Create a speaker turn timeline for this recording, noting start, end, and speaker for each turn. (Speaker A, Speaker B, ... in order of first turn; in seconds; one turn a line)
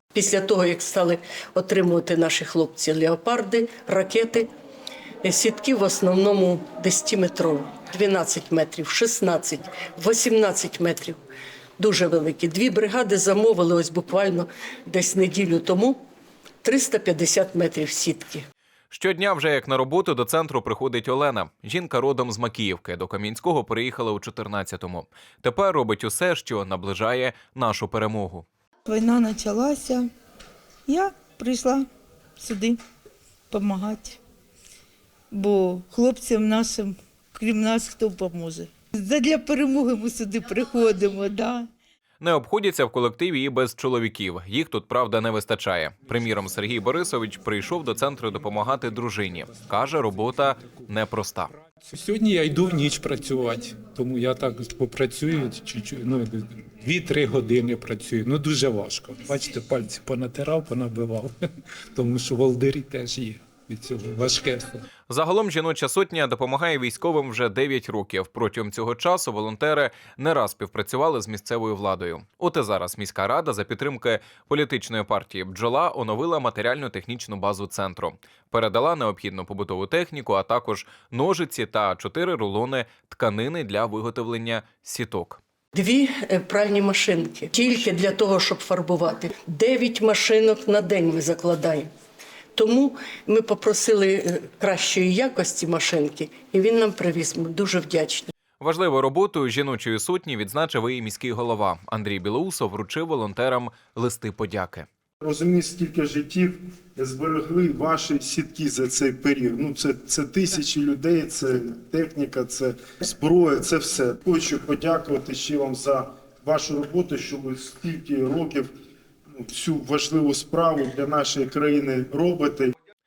Speaker A: 0.1-4.5
Speaker A: 5.2-11.2
Speaker A: 11.8-16.0
Speaker A: 16.6-18.4
Speaker B: 18.9-28.4
Speaker C: 28.9-30.1
Speaker C: 30.9-31.9
Speaker C: 32.4-32.8
Speaker C: 33.5-34.2
Speaker C: 35.3-41.7
Speaker B: 42.2-51.5
Speaker D: 51.8-61.4
Speaker D: 61.9-64.7
Speaker B: 65.1-85.4
Speaker A: 85.7-91.9
Speaker A: 92.5-98.3
Speaker B: 98.6-104.9
Speaker E: 105.2-118.7
Speaker E: 119.3-122.7